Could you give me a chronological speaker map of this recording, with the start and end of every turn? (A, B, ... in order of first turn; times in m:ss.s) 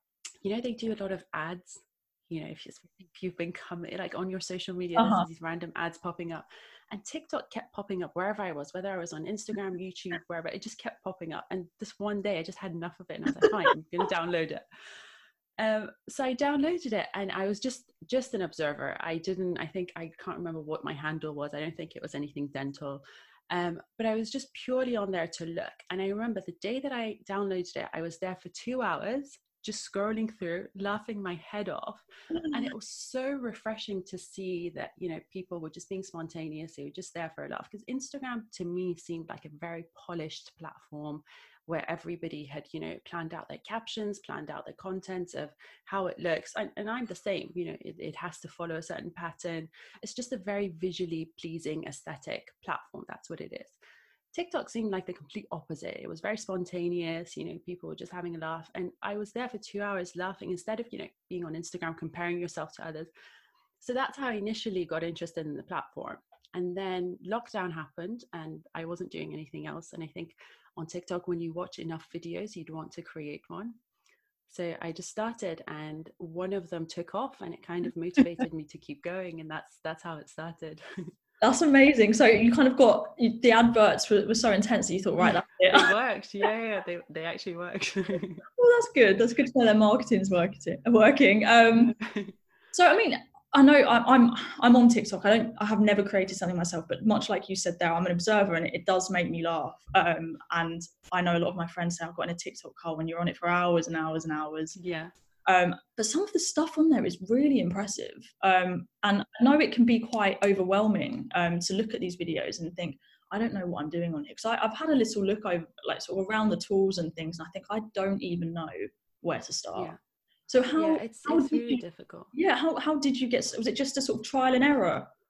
0:00.4-0:14.6 A
0:05.0-0:05.3 B
0:15.6-0:53.8 A
0:54.3-1:03.1 A
1:03.8-1:13.8 A
1:14.5-1:21.1 A
1:21.4-1:25.9 B
1:25.7-1:28.5 A
1:28.6-1:32.0 B
1:31.9-1:32.4 A
1:32.7-1:44.8 B
1:44.8-1:45.1 A
1:45.5-1:59.9 B
2:00.5-2:01.8 B
2:00.8-2:02.3 A
2:02.3-2:05.1 B